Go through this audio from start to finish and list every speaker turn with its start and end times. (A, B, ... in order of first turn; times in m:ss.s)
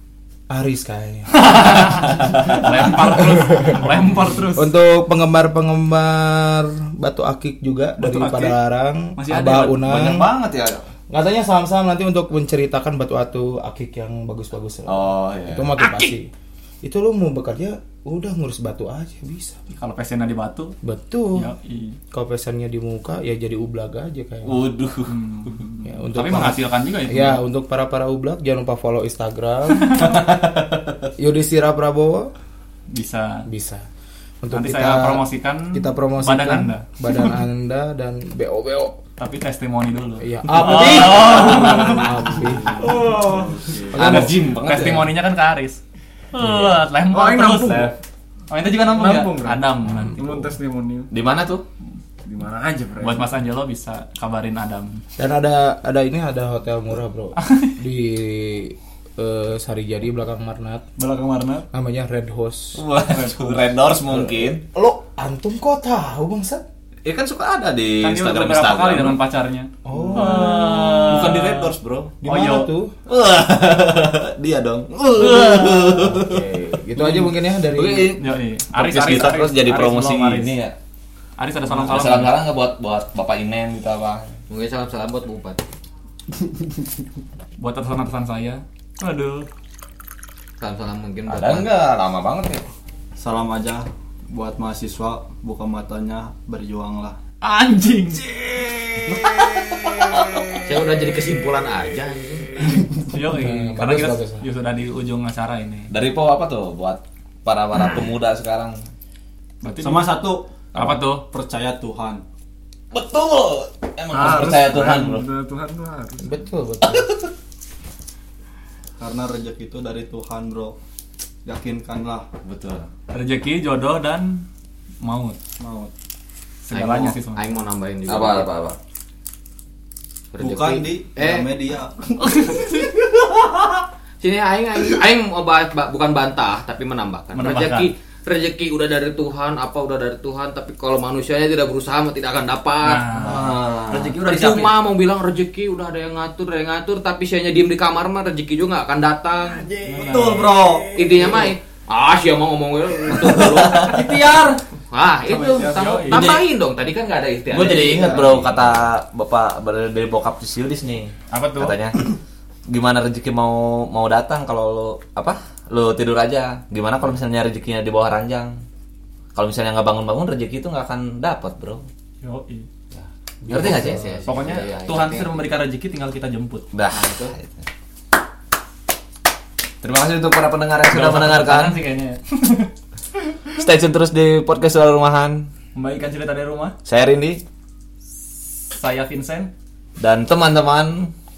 0:00.5-0:10.3 A
0:01.3-0:04.7 B
0:02.2-0:03.0 C
0:08.0-0:08.6 B
0:09.2-0:09.8 B
0:09.7-0:10.9 C
0:11.1-0:16.3 A
0:14.9-0:15.7 C
0:15.8-0:16.1 B
0:16.8-0:19.6 A
0:19.7-0:20.8 B
0:20.8-0:21.5 A
0:21.3-0:22.0 B
0:22.1-0:24.6 A
0:24.4-0:25.6 C
0:25.1-0:27.4 B
0:25.8-0:30.2 A
0:29.8-0:30.2 B
0:30.0-0:31.1 C
0:31.2-0:32.3 A
0:32.9-0:33.5 B
0:33.5-0:33.9 A
0:34.4-0:39.0 A
0:34.5-0:37.4 B
0:39.2-0:42.7 B
0:40.2-0:43.2 A
0:40.7-0:42.1 C
0:42.7-0:44.1 D
0:43.9-0:45.1 C
0:43.9-0:45.8 B
0:44.0-0:44.3 A
0:46.3-0:48.0 B
0:47.1-0:48.0 D
0:48.5-0:50.5 B
0:48.9-0:51.1 D
0:51.1-0:51.6 C
0:52.2-0:53.3 D
0:53.0-0:55.0 B
0:55.2-1:00.8 A
0:57.4-0:57.8 B
1:01.0-1:01.6 D
1:01.7-1:02.9 A
1:02.8-1:04.6 C
1:03.2-1:03.6 D
1:04.1-1:06.6 A
1:07.0-1:09.2 C
1:08.0-1:12.7 B
1:09.8-1:11.0 A
1:10.0-1:12.2 C
1:12.2-1:12.9 A
1:13.1-1:20.8 C
1:15.2-1:15.8 B
1:15.3-1:18.2 A
1:18.2-1:20.5 B
1:21.4-1:22.4 B
1:21.7-1:24.3 C
1:24.5-1:25.6 E
1:27.6-1:29.5 B
1:30.6-1:31.7 E
1:31.3-1:32.7 C
1:33.2-1:37.2 F
1:37.4-1:38.3 B
1:39.1-1:40.1 C
1:40.6-1:42.8 E
1:42.7-1:44.4 A
1:43.0-1:45.9 B
1:45.9-1:48.8 C
1:49.6-1:50.2 B
1:49.8-1:52.2 F
1:50.7-1:51.2 B
1:52.9-1:55.3 C
1:54.1-1:56.4 D
1:56.2-1:57.1 A
1:56.8-1:57.3 C
1:59.0-2:00.8 F
2:01.4-2:02.3 F
2:02.4-2:02.9 C
2:03.1-2:04.4 B
2:05.0-2:05.4 B
2:05.6-2:05.9 F
2:06.6-2:07.4 B
2:06.7-2:08.8 E
2:08.1-2:08.5 C
2:10.3-2:11.5 E
2:10.4-2:12.8 F
2:14.2-2:23.1 E
2:17.4-2:17.9 B
2:22.8-2:24.7 B
2:23.2-2:24.5 C
2:24.2-2:29.7 E
2:29.5-2:31.4 D
2:29.9-2:30.6 B
2:30.0-2:31.0 F
2:30.9-2:38.6 E
2:33.1-2:34.1 C
2:35.3-2:36.3 B
2:35.6-2:36.0 D
2:36.1-2:36.4 C
2:37.5-2:42.0 C
2:37.8-2:38.4 A
2:41.3-2:41.8 B
2:42.7-2:48.6 C
2:49.4-2:51.9 C
2:52.2-2:52.7 B
2:53.4-2:55.5 E
2:53.5-2:54.1 C
2:53.5-2:54.4 A
2:54.3-2:56.7 B
2:56.7-2:57.7 C
2:56.9-2:57.3 E
2:59.8-3:01.8 C
3:00.9-3:02.7 B
3:03.6-3:05.5 C
3:05.8-3:06.8 B
3:06.8-3:07.4 C
3:08.1-3:09.5 B
3:10.0-3:11.1 C